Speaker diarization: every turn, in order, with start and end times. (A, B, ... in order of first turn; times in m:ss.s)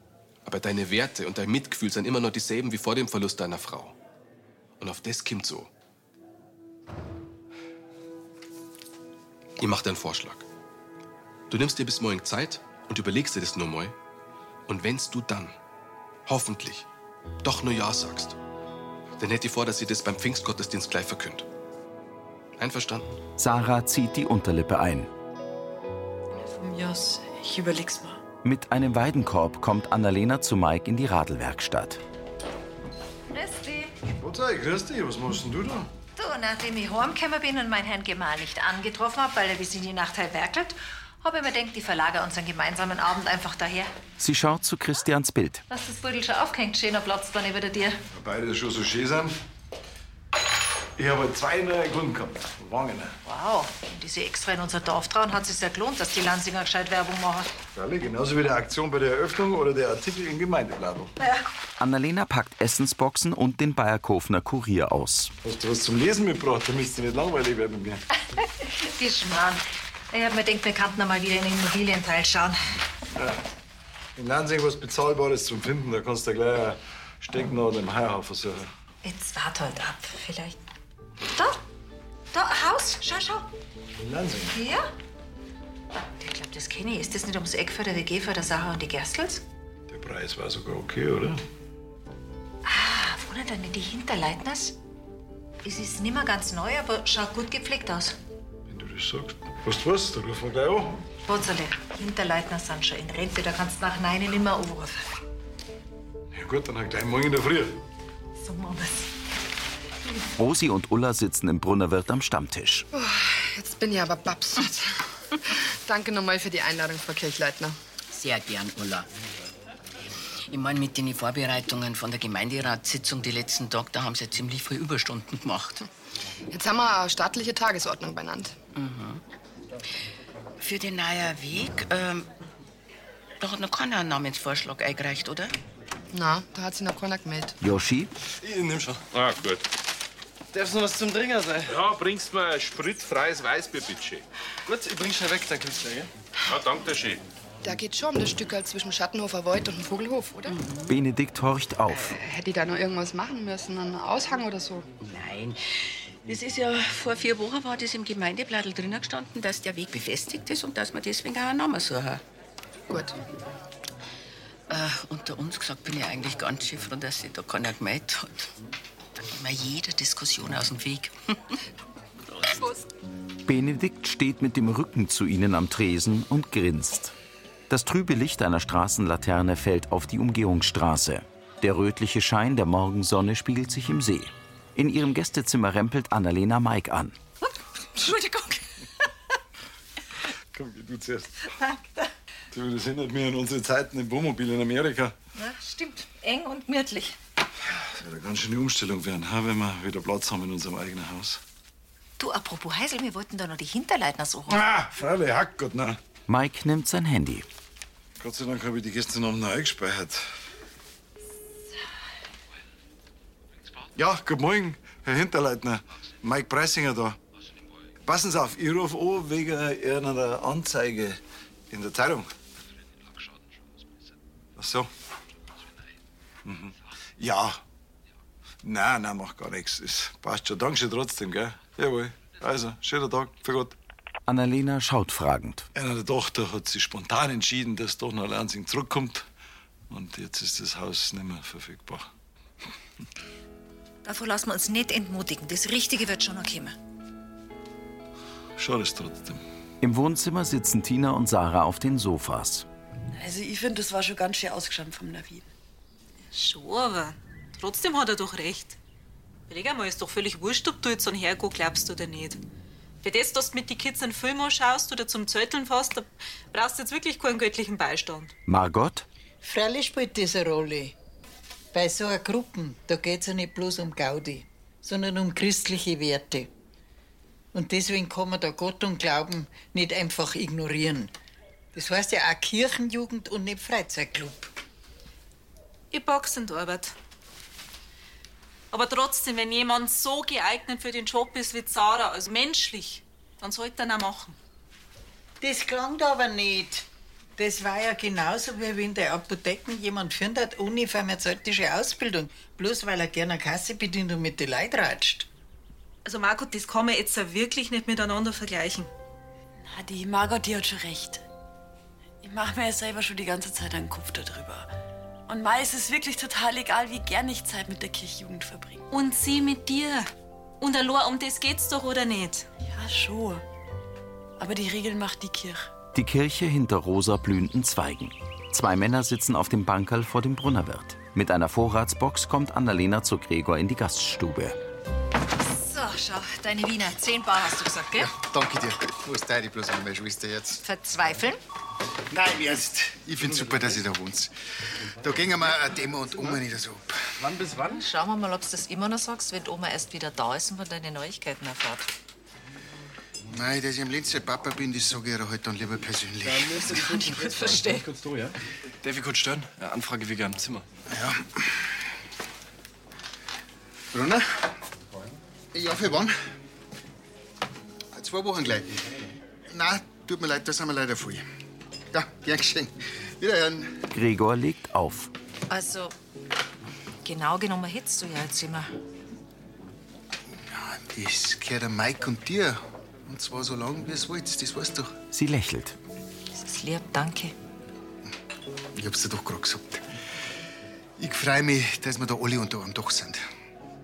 0:00.4-0:04.0 A
0:04.8-0:05.7 A
0:09.6-0:10.4 A
0:11.5-0:13.9 A
0:14.7-0:15.6 A
0:16.2-0:16.8 A
0:17.4-0:18.4 A
0:19.2-0:21.4 A
0:22.6-0:23.1 A
0:23.4-0:25.1 B
0:26.4-0:28.2 C
0:28.4-0:32.0 B
0:33.3-0:33.9 D
0:34.0-0:35.9 E
0:36.2-0:43.9 D
0:44.2-0:45.6 B
0:45.7-0:48.0 D
0:48.1-0:49.4 E
0:51.0-0:53.2 E
0:53.2-0:57.5 D
0:57.7-1:01.1 E
1:01.8-1:05.3 B
1:05.4-1:08.0 E
1:08.6-1:12.6 D
1:14.2-1:18.7 E
1:19.0-1:20.6 D
1:21.3-1:21.6 D
1:22.3-1:23.5 D
1:24.0-1:24.5 E
1:24.5-1:24.9 D
1:26.2-1:29.4 D
1:29.9-1:31.4 E
1:32.6-1:34.8 D
1:35.6-1:38.2 D
1:38.7-1:41.0 E
1:41.2-1:45.0 D
1:46.3-1:47.8 E
1:48.4-1:49.1 D
1:50.4-1:52.9 B
1:52.9-1:55.0 F
1:55.8-1:57.8 F
1:58.1-1:59.0 G
2:00.5-2:05.8 G
2:06.5-2:08.5 F
2:08.7-2:09.2 G
2:10.6-2:12.3 G
2:13.4-2:15.5 G
2:16.1-2:17.6 F
2:17.6-2:18.1 B
2:18.4-2:19.0 H
2:19.1-2:19.7 I
2:20.5-2:21.8 H
2:21.7-2:24.2 I
2:24.6-2:26.1 H
2:26.5-2:27.2 I
2:27.6-2:30.6 F
2:30.5-2:30.9 G
2:30.9-2:32.2 B
2:32.0-2:34.8 F
2:35.0-2:35.6 G
2:36.2-2:42.2 G
2:42.9-2:43.2 F
2:44.7-2:48.5 G
2:49.2-2:51.5 G
2:52.3-2:52.6 G
2:53.4-2:57.1 B
2:57.7-3:07.2 B
3:08.0-3:08.6 D
3:10.5-3:11.4 E
3:12.5-3:15.1 E
3:15.4-3:17.2 D
3:18.0-3:21.4 E
3:22.2-3:24.6 D
3:24.5-3:26.0 E
3:26.3-3:27.4 B
3:28.2-3:30.2 E
3:34.0-3:37.2 E
3:38.0-3:42.3 E
3:44.6-3:44.9 E
3:46.4-3:47.6 E
3:48.6-3:53.7 E
3:54.3-3:55.7 B
3:55.7-3:59.2 E
3:59.9-4:02.1 E
4:04.0-4:06.8 D
4:08.6-4:09.4 E
4:09.8-4:12.6 B
4:13.1-4:15.5 C
4:16.3-4:18.8 J
4:19.5-4:22.4 J
4:23.0-4:28.3 J
4:28.5-4:29.0 B
4:29.4-4:30.9 K
4:31.7-4:36.5 K
4:37.5-4:41.1 K
4:41.7-4:44.5 K
4:45.9-4:46.9 J
4:48.7-4:54.4 J
4:55.4-4:56.8 K
4:57.4-5:05.3 K
5:06.0-5:08.9 J
5:09.6-5:11.2 C
5:12.2-5:14.7 C
5:15.3-5:18.8 C
5:18.9-5:22.4 J
5:22.6-5:23.4 C
5:24.4-5:25.7 C
5:25.9-5:34.6 B
5:35.4-5:38.1 D
5:38.0-5:40.6 L
5:40.6-5:41.4 D
5:42.1-5:44.3 L
5:45.0-5:47.0 L
5:47.2-5:47.8 H
5:47.6-5:51.9 D
5:53.3-5:56.5 L
5:56.2-6:00.6 H
5:56.6-5:57.8 D
6:00.9-6:01.4 L
6:03.9-6:04.4 L
6:05.5-6:06.1 L
6:07.9-6:08.7 L
6:09.5-6:11.2 L
6:11.9-6:13.7 L
6:13.9-6:15.1 B
6:15.5-6:15.9 D
6:17.0-6:18.7 D
6:20.5-6:24.9 L
6:25.1-6:25.8 B
6:26.3-6:27.3 D
6:28.8-6:29.8 L
6:31.0-6:33.2 L